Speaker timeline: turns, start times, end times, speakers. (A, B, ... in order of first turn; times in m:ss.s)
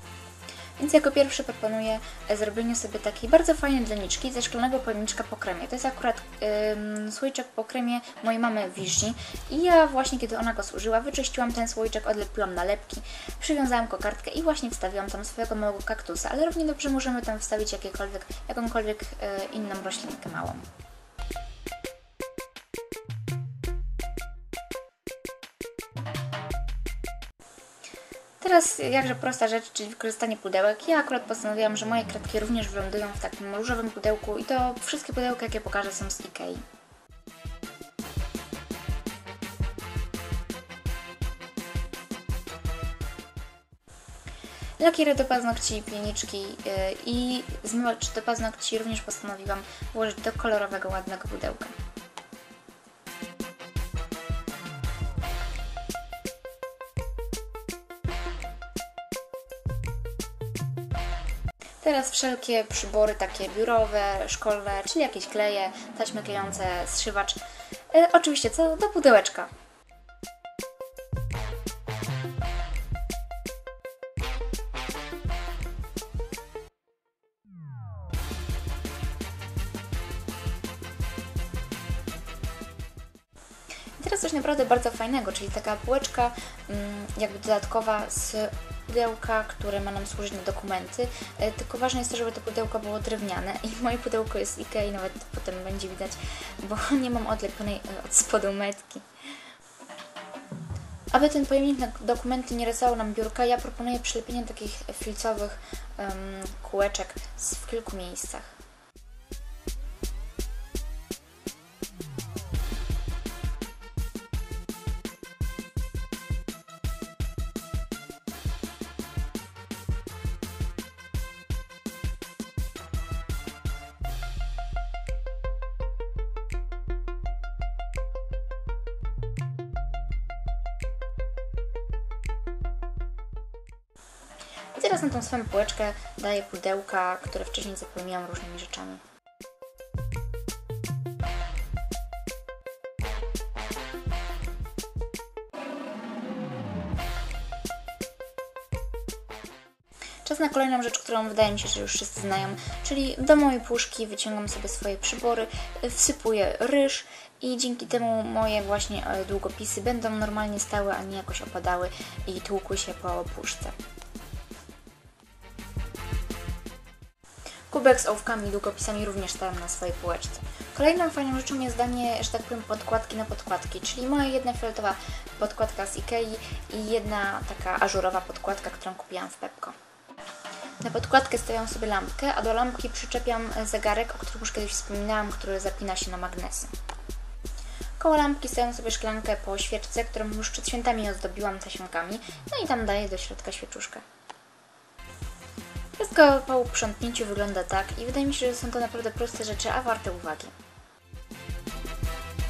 0:00.8-0:20.6 A
0:28.4-0:36.6 A
0:44.8-0:51.8 A
1:01.8-1:07.4 A
1:07.9-1:09.5 A
1:24.0-1:39.0 A
1:41.1-1:48.5 A
2:14.8-2:19.0 A
2:30.2-2:43.8 A
2:47.7-2:59.8 A
3:00.8-3:06.7 A
3:08.0-3:14.0 A
3:16.0-3:20.5 A